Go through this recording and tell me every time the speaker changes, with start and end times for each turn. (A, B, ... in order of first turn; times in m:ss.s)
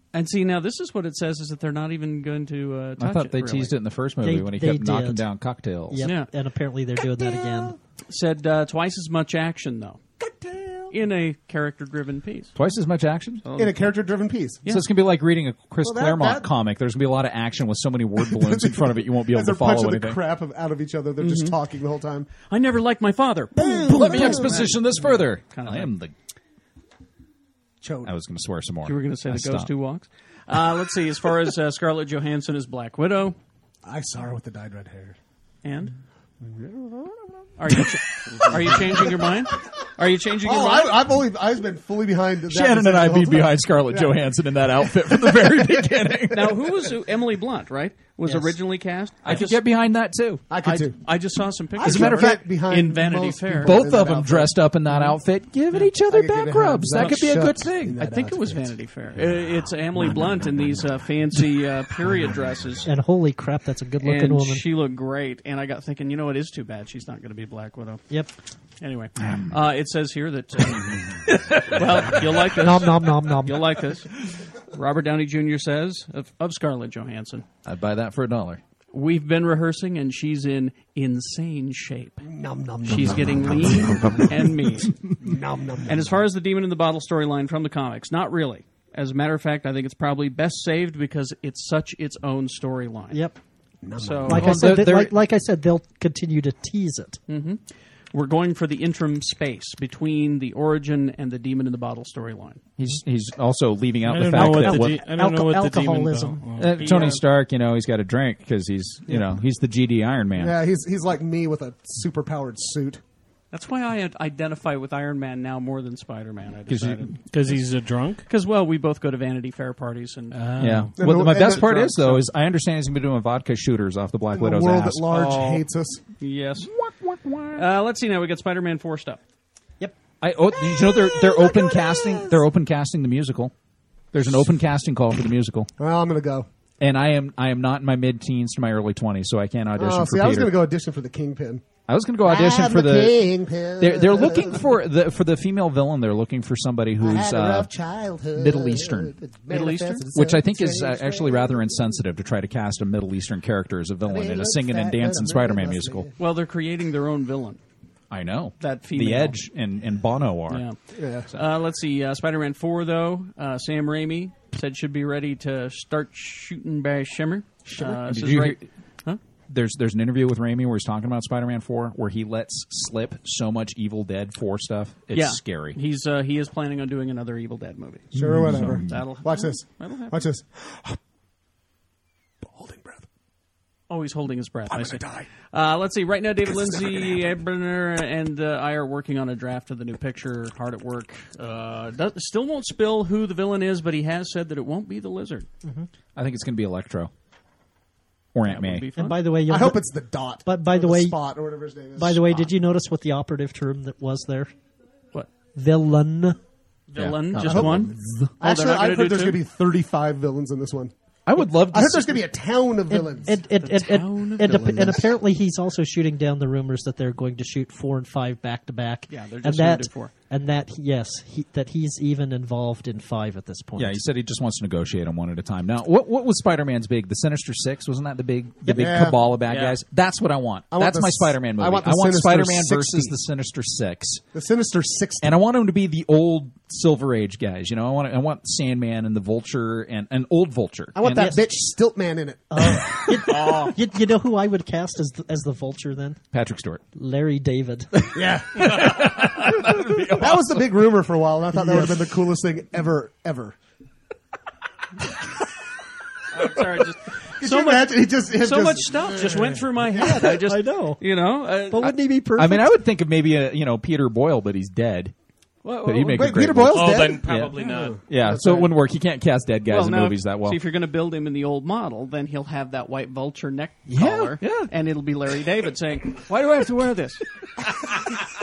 0:00.1-0:03.8 A
0:03.0-0:06.0 B
0:04.2-0:05.3 C
0:05.9-0:07.8 C
0:06.0-0:06.3 A
0:07.2-0:07.8 D
0:08.1-0:10.0 A
0:10.2-0:10.9 D
0:10.9-0:12.5 A
0:12.6-0:13.4 B
0:13.4-0:13.9 A
0:13.5-0:14.6 D
0:14.7-0:20.2 B
0:15.8-0:16.5 D
0:18.2-0:22.3 D
0:21.2-0:21.6 A
0:22.5-0:25.9 A
0:23.5-0:24.7 D
0:23.9-0:26.1 B
0:27.8-0:28.1 D
0:28.0-0:29.7 B
0:28.9-0:33.4 A
0:33.8-0:35.2 D
0:35.6-0:35.9 A
0:36.4-0:44.2 D
0:37.6-0:41.0 A
0:42.5-0:46.6 B
0:44.8-0:46.8 D
0:46.3-0:49.6 A
0:48.2-0:48.6 C
0:49.2-0:50.5 B
0:50.5-0:51.0 D
0:50.6-0:53.9 A
0:51.8-0:54.5 D
0:51.8-0:52.4 B
0:53.6-0:58.0 B
0:56.1-0:58.7 D
0:56.9-0:57.3 A
0:58.0-1:02.9 A
1:00.0-1:02.9 D
1:02.8-1:04.7 C
1:04.0-1:08.0 A
1:08.8-1:17.4 A
1:09.2-1:09.6 B
1:12.5-1:13.8 C
1:17.6-1:18.6 B
1:18.9-1:22.2 A
1:22.2-1:24.4 D
1:22.8-1:25.0 A
1:25.2-1:26.2 D
1:25.8-1:33.2 A
1:33.1-1:33.4 C
1:33.8-1:34.8 D
1:34.0-1:34.6 A
1:34.3-1:37.2 C
1:34.3-1:35.1 B
1:37.3-1:37.6 A
1:38.1-1:42.6 A
1:42.8-1:45.0 B
1:44.1-1:47.1 E
1:44.3-1:46.4 C
1:46.6-1:50.6 B
1:46.7-1:47.2 A
1:49.1-1:49.4 D
1:50.4-1:53.0 D
1:53.5-1:57.2 A
1:56.7-1:57.2 B
1:57.3-1:58.3 E
1:58.3-2:00.4 A
2:00.3-2:00.9 E
2:00.6-2:05.6 B
2:01.0-2:02.3 D
2:04.3-2:06.0 D
2:05.1-2:05.5 A
2:06.2-2:06.7 A
2:06.6-2:07.6 B
2:07.6-2:09.2 A
2:10.2-2:13.5 B
2:10.6-2:12.3 C
2:14.1-2:15.7 B
2:15.8-2:16.5 D
2:16.8-2:20.5 B
2:19.8-2:21.7 D
2:21.9-2:23.2 B
2:22.2-2:24.6 D
2:23.8-2:27.7 B
2:27.0-2:31.7 D
2:28.3-2:29.1 B
2:29.5-2:30.1 A
2:30.1-2:36.1 B
2:34.0-2:36.2 D
2:36.2-2:37.6 A
2:38.1-2:40.7 B
2:38.6-2:39.4 A
2:40.5-2:49.2 A
2:40.9-2:41.3 D
2:47.7-2:48.0 D
2:47.9-2:48.7 B
2:49.5-2:55.8 B
2:55.1-2:58.1 A
2:58.1-2:59.0 B
2:58.1-3:01.0 D
2:58.8-3:00.2 A
3:02.4-3:03.1 D
3:03.9-3:15.5 A
3:04.7-3:05.3 D
3:06.5-3:07.2 D
3:15.6-3:15.9 C
3:16.2-3:17.1 B
3:18.3-3:18.8 B
3:18.4-3:19.3 A
3:19.0-3:21.2 C
3:19.5-3:22.5 D
3:22.0-3:24.5 C
3:25.6-3:26.4 C
3:26.9-3:29.4 A
3:27.0-3:28.3 B
3:27.4-3:33.4 D
3:31.3-3:32.3 B
3:32.9-3:44.0 C
3:33.6-3:34.8 A
3:34.4-3:35.1 D
3:39.1-3:40.1 A
3:43.8-3:54.2 B
3:48.6-3:49.0 C
3:48.8-3:49.2 D
3:49.5-3:49.8 A
3:50.7-3:53.1 D
3:54.3-3:55.3 D
3:55.2-4:01.3 B
4:01.0-4:03.2 D
4:01.1-4:01.5 C
4:02.5-4:06.2 C
4:06.3-4:06.8 B
4:07.0-4:07.9 C
4:08.0-4:10.5 B
4:08.1-4:09.4 D
4:10.1-4:13.6 D
4:11.6-4:11.8 C
4:16.3-4:21.9 A
4:17.4-4:20.2 D
4:19.9-4:21.0 C
4:21.7-4:22.8 C
4:21.8-4:25.1 B
4:25.6-4:26.3 A
4:25.8-4:27.6 B
4:26.1-4:28.7 D
4:26.7-4:28.1 E
4:28.1-4:30.6 B
4:29.7-4:37.2 A
4:33.9-4:34.7 B